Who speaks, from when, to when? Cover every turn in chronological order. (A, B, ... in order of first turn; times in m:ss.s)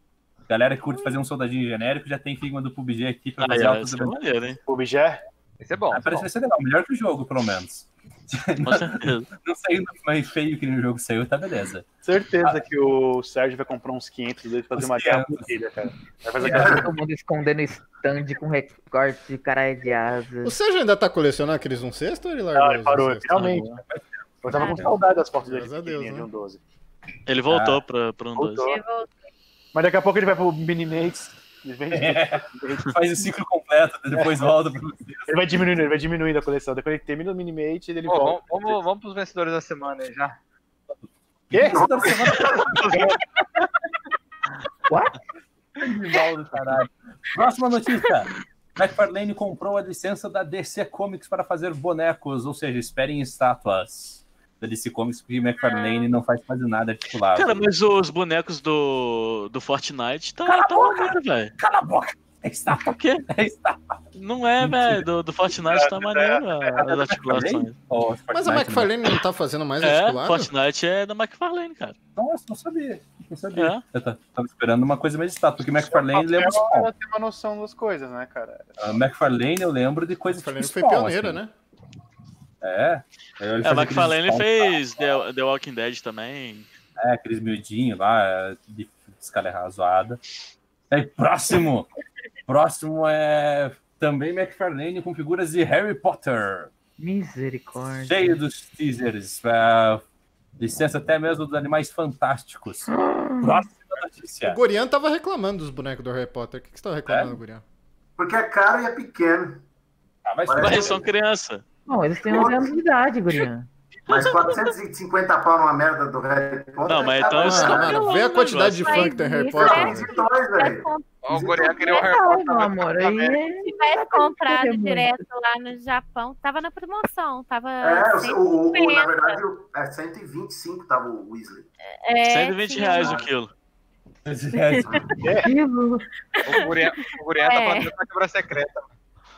0:00.5-0:04.2 A
0:03.4-0:04.6 B
0:04.7-0:05.2 C
0:05.6-0:06.3 D
0:05.9-0:11.8 A
0:08.6-0:09.3 B
0:12.0-0:16.9 C
0:14.7-0:15.5 A
0:16.4-0:16.8 A
0:16.4-0:20.6 E
0:20.4-0:23.5 F
0:22.5-0:23.8 C
0:23.3-0:23.7 B
0:23.9-0:24.9 A
0:24.4-0:26.6 C
0:24.5-0:24.9 G
0:25.4-0:26.3 F
0:27.3-0:28.7 B
0:27.5-0:27.8 A
0:28.4-0:28.8 C
0:28.6-0:29.1 G
0:29.7-0:33.0 C
0:31.9-0:35.4 A
0:34.1-0:34.5 C
0:35.3-0:38.8 C
0:38.0-0:40.4 D
0:41.5-0:43.2 A
0:41.5-0:42.2 C
0:41.7-0:42.6 H
0:42.6-0:43.1 D
0:42.9-0:43.2 C
0:44.9-0:45.1 E
0:45.8-0:57.6 A
0:55.6-0:56.1 G
0:57.3-1:01.5 B
1:00.4-1:04.0 A
1:02.8-1:03.2 B
1:04.1-1:07.8 B
1:04.6-1:05.0 A
1:05.6-1:06.4 C
1:06.7-1:08.9 A
1:08.3-1:10.5 F
1:09.8-1:12.0 B
1:12.2-1:16.9 A
1:13.5-1:13.8 B
1:15.8-1:19.0 C
1:18.8-1:21.4 A
1:20.3-1:21.5 F
1:22.6-1:25.1 A
1:23.6-1:26.7 B
1:27.0-1:30.2 A
1:30.9-1:31.9 A
1:32.5-1:36.7 A
1:37.0-1:38.4 E
1:38.0-1:40.0 A
1:40.6-1:44.6 A
1:42.9-1:43.6 E
1:44.4-1:47.6 F
1:47.1-1:47.4 A
1:48.2-1:49.6 H
1:50.2-1:50.9 A
1:50.5-1:51.1 H
1:50.6-1:51.6 B
1:51.9-1:53.7 E
1:52.3-1:52.7 H
1:54.1-1:58.0 H
1:54.1-1:54.6 B
1:56.8-1:59.2 B
1:57.3-2:00.1 F
1:58.7-2:01.2 G
1:59.5-2:01.9 H
2:01.2-2:03.4 D
2:01.9-2:05.1 E
2:03.5-2:09.4 G
2:07.8-2:11.7 H
2:12.0-2:13.2 G
2:12.2-2:13.5 B
2:13.0-2:13.3 H
2:14.2-2:15.0 A
2:14.5-2:15.4 G
2:15.4-2:16.1 E
2:16.4-2:17.9 G
2:16.4-2:18.9 D